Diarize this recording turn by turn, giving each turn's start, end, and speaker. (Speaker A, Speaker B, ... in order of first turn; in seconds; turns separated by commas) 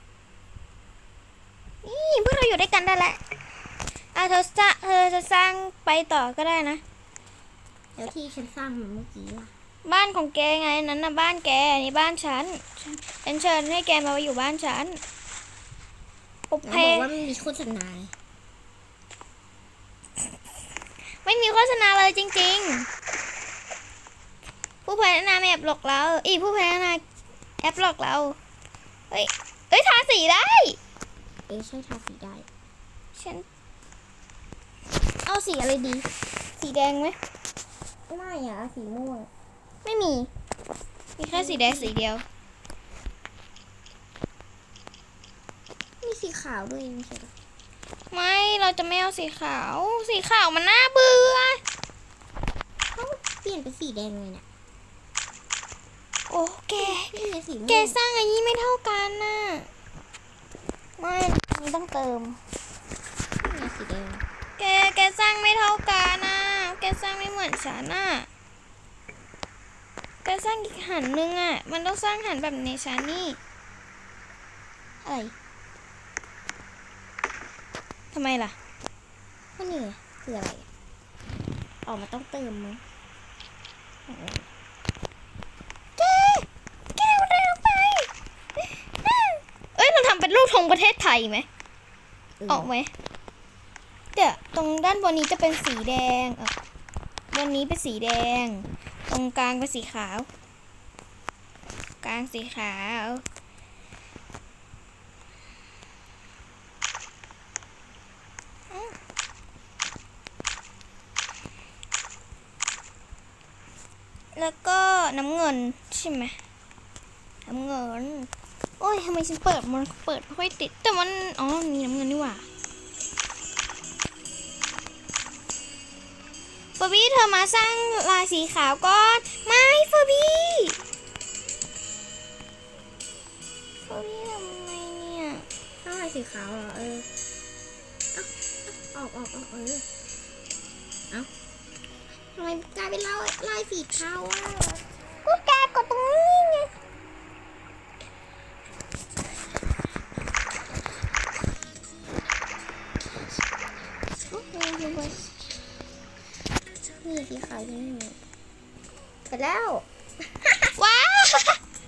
Speaker A: 1.8-3.2, Speaker A: 4.1-6.8, Speaker B: 8.0-9.5, Speaker A: 9.8-15.0, Speaker A: 16.5-17.1, Speaker B: 16.7-18.1, Speaker A: 21.2-22.9, Speaker A: 24.8-27.0, Speaker A: 27.6-28.4, Speaker A: 29.1-30.8, Speaker B: 31.5-32.5, Speaker A: 33.1-33.4, Speaker A: 35.2-36.1, Speaker A: 36.6-37.2, Speaker B: 38.1-39.3, Speaker A: 39.8-40.3, Speaker A: 41.2-42.2, Speaker B: 41.3-41.9, Speaker B: 46.0-47.3, Speaker A: 48.1-51.6, Speaker B: 52.9-54.4, Speaker A: 56.3-57.1, Speaker B: 56.8-58.0, Speaker A: 57.7-59.7, Speaker A: 61.0-62.4, Speaker B: 63.4-64.2, Speaker A: 64.6-68.3, Speaker A: 70.2-73.4, Speaker A: 75.0-75.3, Speaker A: 78.1-78.5, Speaker B: 79.6-80.6, Speaker B: 81.8-82.8, Speaker B: 84.1-84.4, Speaker A: 86.0-88.1, Speaker A: 89.0-91.5, Speaker B: 92.4-92.7, Speaker A: 92.5-92.9, Speaker A: 94.1-96.5, Speaker A: 97.3-100.3, Speaker A: 102.0-103.2, Speaker A: 108.7-109.0, Speaker A: 114.3-116.3, Speaker A: 117.5-122.4, Speaker A: 126.8-130.8, Speaker A: 133.8-135.4, Speaker B: 135.8-137.1, Speaker B: 138.1-139.8, Speaker B: 142.3-144.8, Speaker A: 145.2-146.7, Speaker A: 154.3-155.2, Speaker B: 157.0-158.2, Speaker B: 159.3-160.7, Speaker A: 160.8-161.6